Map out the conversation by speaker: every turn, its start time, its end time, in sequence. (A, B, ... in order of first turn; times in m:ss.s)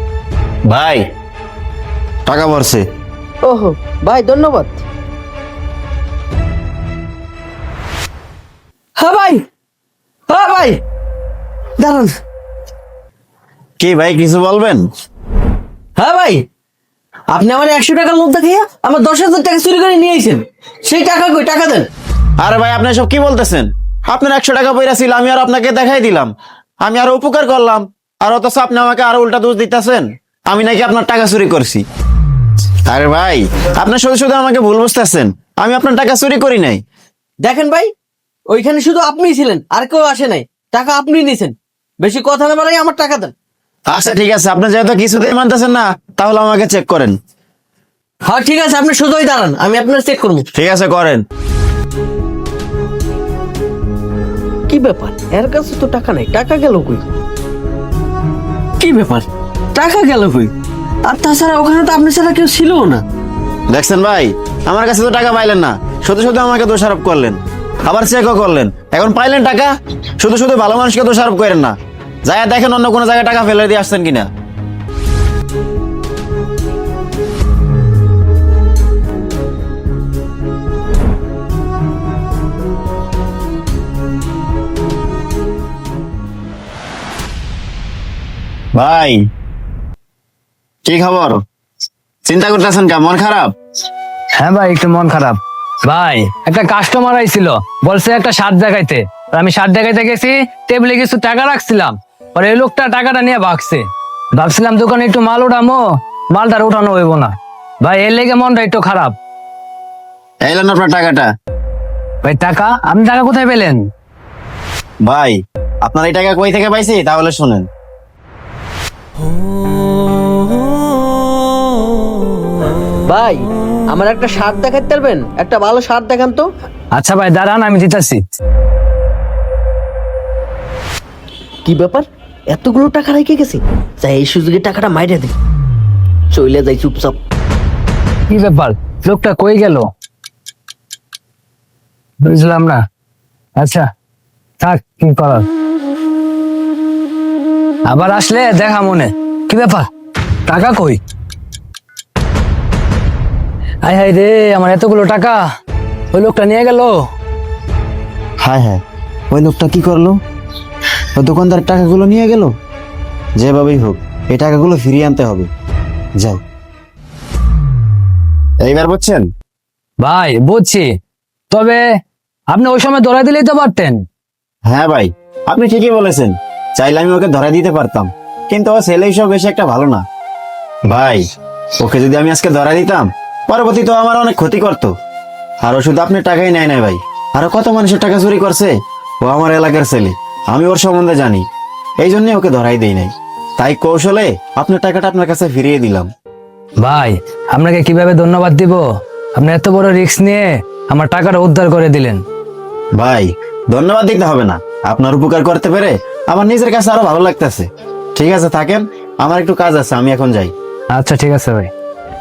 0:00.7-0:01.1 A
0:02.3-0:02.8 A
0:03.4-0:04.8 B
0:09.0-0:09.4 B
0:10.3-0:10.8 B
0:11.8-0:12.1 B
0:13.8-0:14.8 A
0:16.0-0:16.4 B
0:17.3-0:21.9 B
0:22.4-0:26.3 A
0:26.8-0:31.8 A
0:32.9-0:36.8 A
0:37.4-0:37.9 B
0:38.5-0:43.3 B
0:43.9-0:47.2 A
0:48.3-0:50.5 B
0:50.5-0:51.2 A
0:54.7-0:57.1 B
0:58.8-1:00.5 B
1:01.0-1:03.0 B
1:03.7-1:11.7 A
1:12.3-1:14.3 A
1:28.8-1:29.2 A
1:30.9-1:31.4 A
1:32.2-1:33.5 A
1:34.4-1:49.2 C
1:50.4-1:51.3 A
1:52.2-1:53.8 C
1:55.0-1:57.7 A
2:03.1-2:06.5 B
2:07.0-2:08.2 C
2:11.6-2:15.3 B
2:16.3-2:17.2 B
2:18.3-2:19.9 C
2:22.3-2:22.8 C
2:23.6-2:23.9 C
2:24.6-2:25.5 C
2:27.9-2:29.9 C
2:30.5-2:31.0 C
2:33.8-2:35.4 C
2:36.1-2:37.0 C
2:38.4-2:38.8 A
2:39.3-2:40.2 A
2:41.2-2:42.5 A
2:43.4-2:45.5 A
2:48.6-2:49.3 A
2:50.0-2:50.9 C
2:51.5-2:51.8 C
2:52.5-2:54.0 C
2:54.7-3:00.0 A
3:00.9-3:01.2 A
3:01.8-3:04.9 A
3:05.6-3:11.4 A
3:12.0-3:16.1 A
3:16.8-3:22.2 C
3:23.0-3:30.5 A
3:30.9-3:31.7 C